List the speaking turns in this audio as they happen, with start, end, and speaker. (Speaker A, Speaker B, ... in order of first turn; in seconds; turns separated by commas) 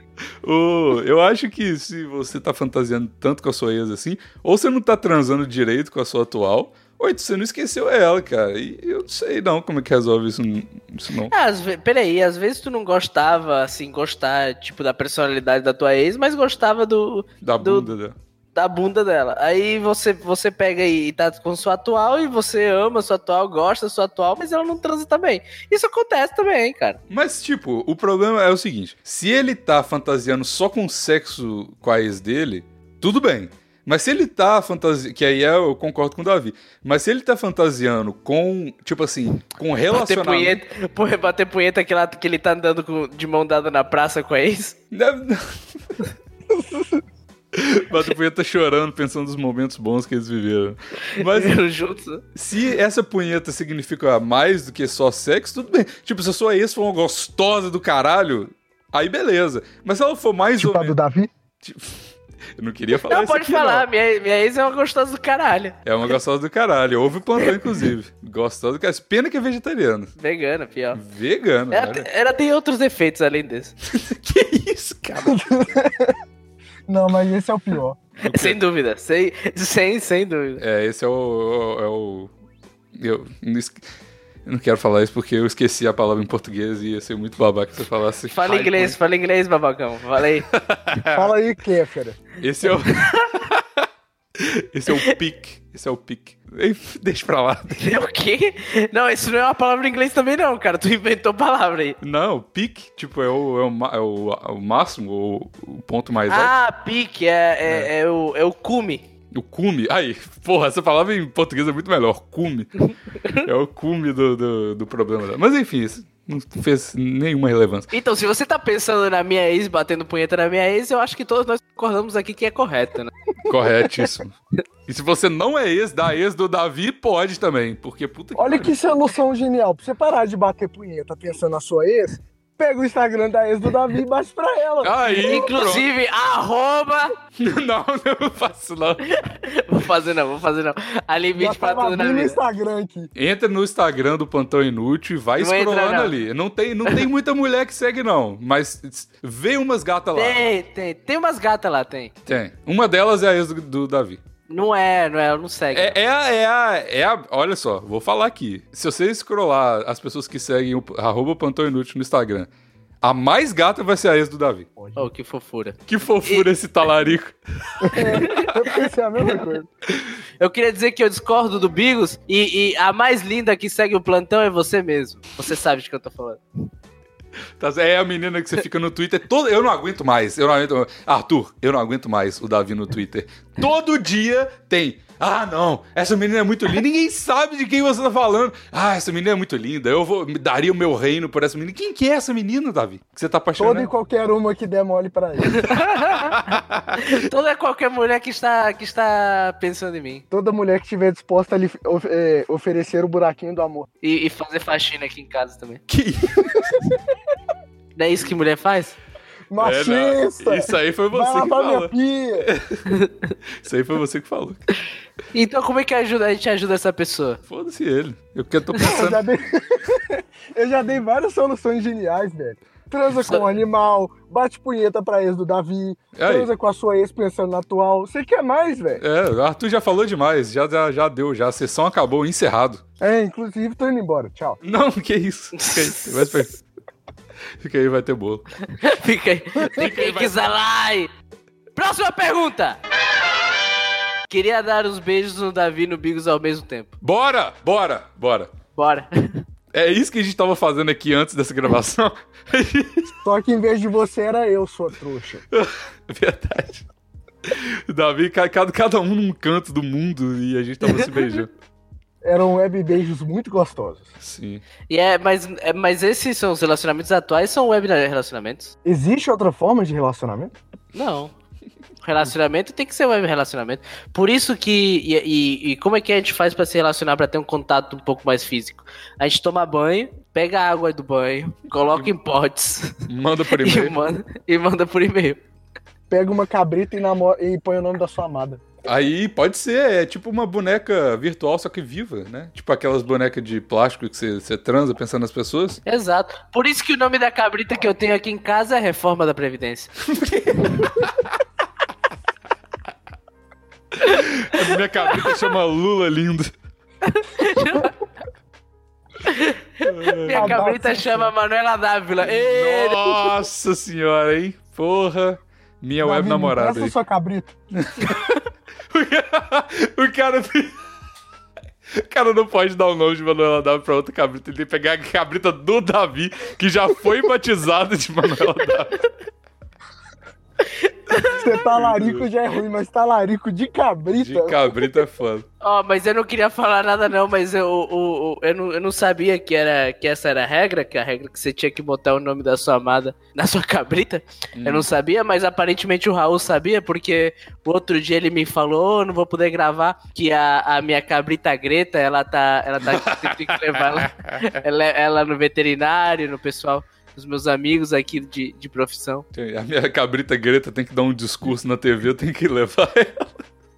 Speaker A: 0.4-11.3, Speaker B: 11.3-17.9, Speaker A: 17.4-18.2, Speaker B: 18.6-27.0, Speaker A: 27.1-40.6, Speaker B: 39.9-44.8, Speaker A: 44.9-46.1, Speaker C: 46.5-47.0, Speaker A: 47.5-51.6, Speaker B: 51.2-52.2, Speaker A: 52.4-61.0, Speaker C: 60.6-61.3, Speaker A: 61.6-62.0, Speaker A: 62.6-63.9, Speaker B: 63.1-65.8, Speaker A: 65.8-70.1, Speaker B: 70.2-71.0, Speaker A: 70.9-72.1, Speaker B: 71.7-73.8, Speaker A: 73.9-75.4, Speaker C: 75.2-76.2, Speaker C: 76.9-78.0, Speaker A: 78.2-78.6, Speaker B: 78.2-80.6, Speaker A: 80.6-82.3, Speaker A: 83.0-83.8, Speaker A: 84.5-89.0, Speaker B: 88.3-90.5, Speaker A: 90.5-91.3, Speaker C: 91.1-92.2, Speaker A: 92.4-93.9, Speaker A: 94.4-97.9, Speaker B: 97.8-102.0, Speaker A: 102.0-106.5, Speaker B: 106.3-109.0, Speaker A: 109.3-112.7, Speaker A: 113.4-117.9, Speaker B: 117.9-123.1, Speaker A: 123.5-124.3, Speaker A: 124.9-128.8, Speaker C: 128.4-135.5, Speaker A: 134.8-135.9, Speaker B: 135.2-137.2, Speaker A: 137.4-139.1, Speaker B: 139.1-142.4, Speaker C: 141.4-143.1, Speaker A: 143.2-150.4, Speaker B: 145.4-146.2, Speaker B: 150.2-152.1, Speaker A: 152.2-154.2, Speaker B: 154.5-156.0, Speaker A: 155.7-162.5, Speaker A: 163.0-164.7, Speaker C: 164.8-165.1, Speaker B: 165.0-166.5, Speaker A: 165.9-168.5, Speaker C: 167.8-169.7, Speaker B: 168.2-168.5, Speaker B: 170.4-176.4, Speaker A: 177.6-193.9, Speaker C: 193.6-195.8, Speaker B: 195.5-200.2, Speaker A: 196.3-197.0, Speaker C: 200.3-203.9, Speaker B: 204.0-205.8, Speaker A: 205.9-206.8, Speaker B: 208.0-209.0, Speaker C: 209.5-212.5, Speaker A: 209.6-212.9, Speaker A: 213.6-214.7, Speaker B: 215.3-217.4, Speaker A: 217.5-219.2, Speaker C: 218.8-229.0, Speaker A: 226.2-226.5, Speaker A: 229.0-232.8, Speaker C: 233.0-234.6, Speaker A: 234.6-236.6, Speaker B: 235.6-236.4, Speaker A: 237.6-238.5, Speaker B: 238.7-241.1, Speaker A: 239.7-240.4, Speaker B: 241.8-242.8, Speaker B: 244.3-246.9, Speaker A: 247.0-248.5, Speaker B: 248.8-249.4, Speaker A: 249.7-253.2, Speaker C: 253.2-255.4, Speaker A: 255.5-256.9, Speaker A: 257.5-261.5, Speaker C: 262.2-264.1, Speaker A: 264.2-264.6, Speaker B: 264.9-268.7, Speaker C: 268.9-270.5, Speaker B: 270.9-271.3, Speaker B: 272.0-285.4, Speaker A: 283.1-284.0, Speaker C: 286.1-288.6, Speaker A: 288.9-295.8, Speaker B: 295.9-299.9, Speaker A: 300.0-301.3, Speaker A: 303.9-306.5, Speaker B: 307.0-307.9, Speaker B: 309.2-313.3, Speaker A: 309.8-310.6, Speaker C: 310.3-311.3, Speaker A: 312.3-316.9, Speaker C: 316.0-317.5, Speaker A: 317.8-318.3, Speaker A: 318.9-320.8, Speaker A: 322.0-329.0, Speaker C: 331.3-334.8, Speaker A: 331.6-332.3, Speaker A: 334.2-335.5, Speaker B: 335.6-359.2, Speaker A: 344.6-344.9, Speaker A: 352.9-354.5, Speaker A: 359.3-363.4